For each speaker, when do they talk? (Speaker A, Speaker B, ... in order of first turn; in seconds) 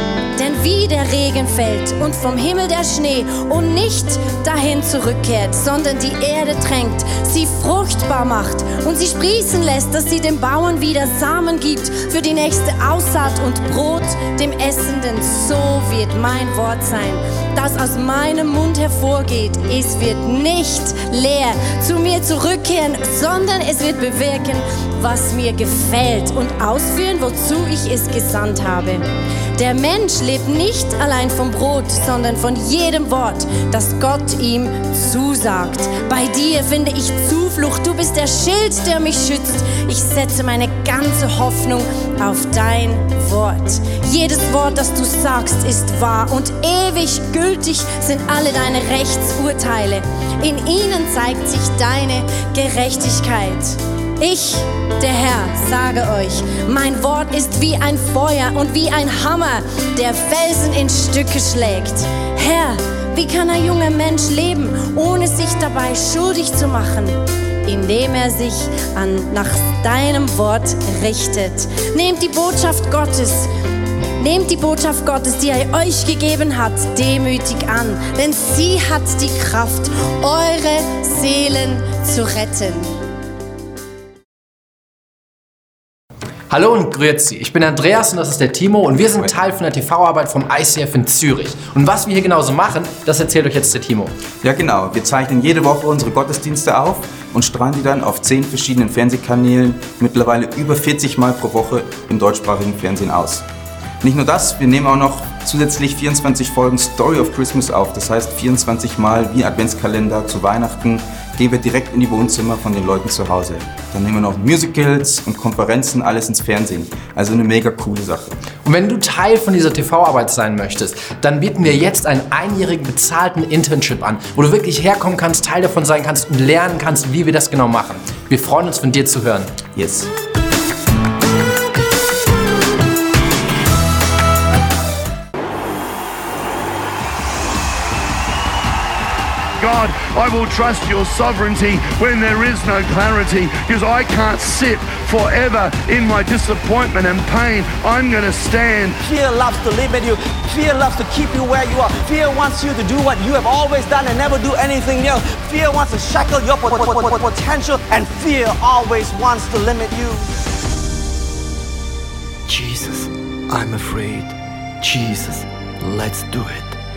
Speaker A: 0.4-29.0, 29.6-73.5, 74.2-82.9
Speaker B: 86.5-94.1, 118.6-129.6
Speaker C: 94.4-103.4, 104.0-118.3, 129.7-130.1
Speaker D: 139.6-149.0
Speaker E: 149.0-160.2
Speaker F: 162.5-166.8